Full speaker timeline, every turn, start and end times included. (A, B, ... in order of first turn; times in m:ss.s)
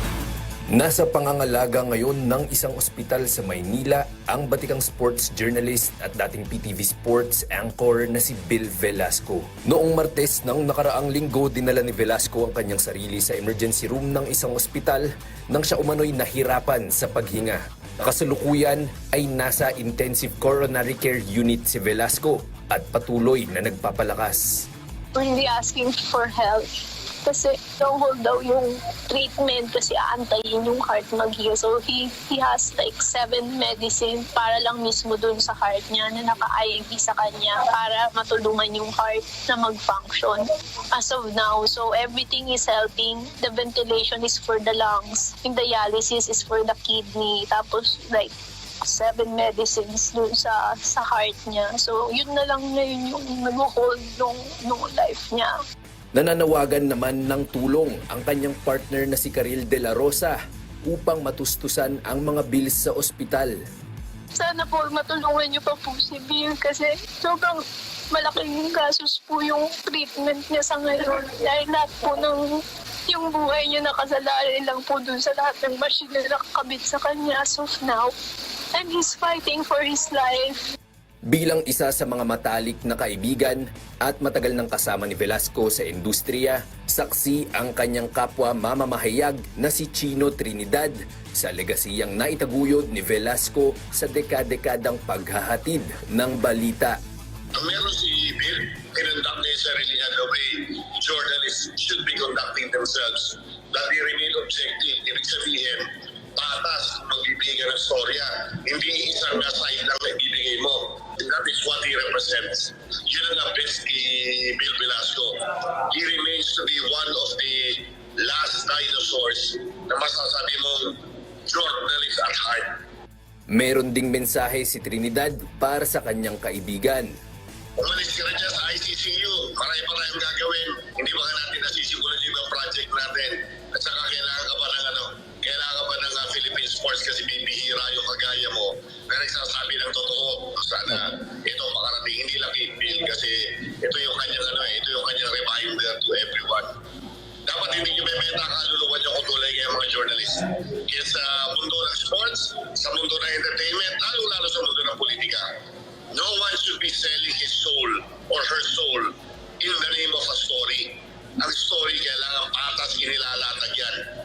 0:00.7-0:24.7 A
0:25.1-0:26.7 B
0:27.2-0:55.5 B
0:56.1-1:03.6 A
1:04.3-1:18.1 B
1:18.7-1:20.6 B
1:21.3-1:37.0 A
1:37.6-2:02.7 C
2:03.5-2:07.1 A
2:07.8-2:26.7 C
2:27.4-2:35.4 C
2:36.1-2:44.0 C